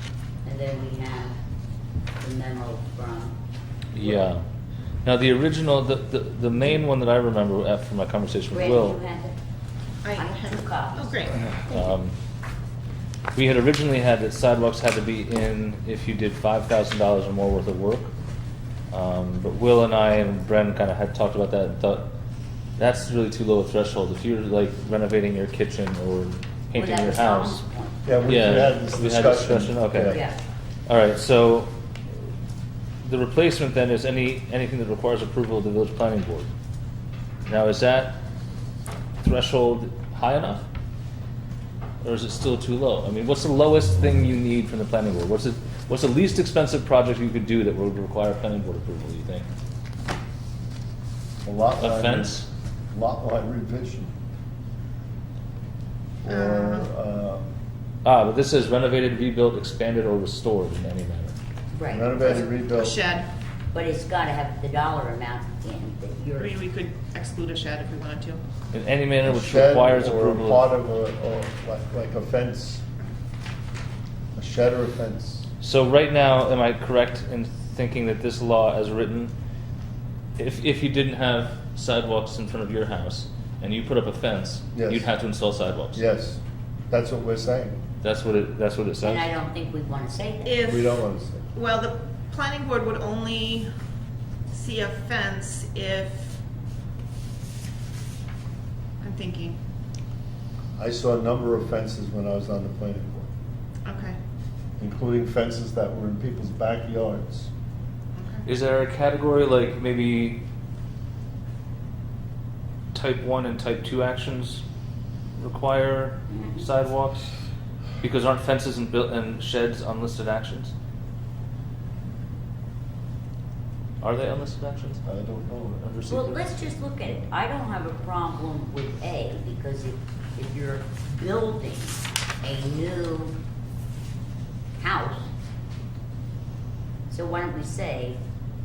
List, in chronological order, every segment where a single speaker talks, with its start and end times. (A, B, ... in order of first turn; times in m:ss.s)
0:00.4-0:01.4 A
0:02.2-0:03.4 A
0:03.9-0:04.4 B
0:05.0-0:09.0 B
0:08.5-0:09.4 A
0:10.0-0:11.5 C
0:10.1-0:11.9 A
0:11.6-0:12.2 B
0:13.3-0:18.1 B
0:18.9-0:22.1 B
0:22.8-0:27.6 B
0:26.7-0:28.1 A
0:28.0-0:30.2 D
0:28.2-0:30.2 B
0:30.1-0:30.4 A
0:30.9-0:31.7 B
0:33.0-0:36.5 B
0:37.5-0:38.2 B
0:39.2-0:40.7 B
0:42.0-0:49.5 B
0:51.4-0:54.1 D
0:51.8-0:52.5 B
0:56.2-0:57.5 D
0:56.3-0:56.9 C
0:58.0-1:01.4 B
1:01.7-1:02.3 A
1:01.9-1:03.0 D
1:02.2-1:03.3 C
1:03.7-1:06.6 A
1:06.4-1:08.4 C
1:08.7-1:10.7 B
1:09.2-1:12.8 D
1:14.4-1:15.5 D
1:15.6-1:19.3 B
1:20.4-1:26.0 B
1:24.7-1:25.1 D
1:25.9-1:27.8 D
1:28.0-1:29.3 B
1:29.0-1:30.6 A
1:30.4-1:30.9 C
1:30.6-1:31.5 D
1:31.6-1:33.7 C
1:34.5-1:36.4 C
1:39.0-1:39.6 C
1:40.8-1:43.3 D
1:43.8-1:44.2 C
1:44.8-1:47.5 D
1:48.2-1:48.5 C
1:48.4-1:50.4 B
1:52.9-1:54.6 B
1:55.4-1:57.3 B
1:56.3-1:56.7 A
1:58.0-2:00.7 B
2:04.0-2:05.0 B
2:05.1-2:05.9 D
2:05.8-2:06.4 B
2:06.1-2:13.4 A
2:14.8-2:15.3 A
2:17.1-2:18.2 A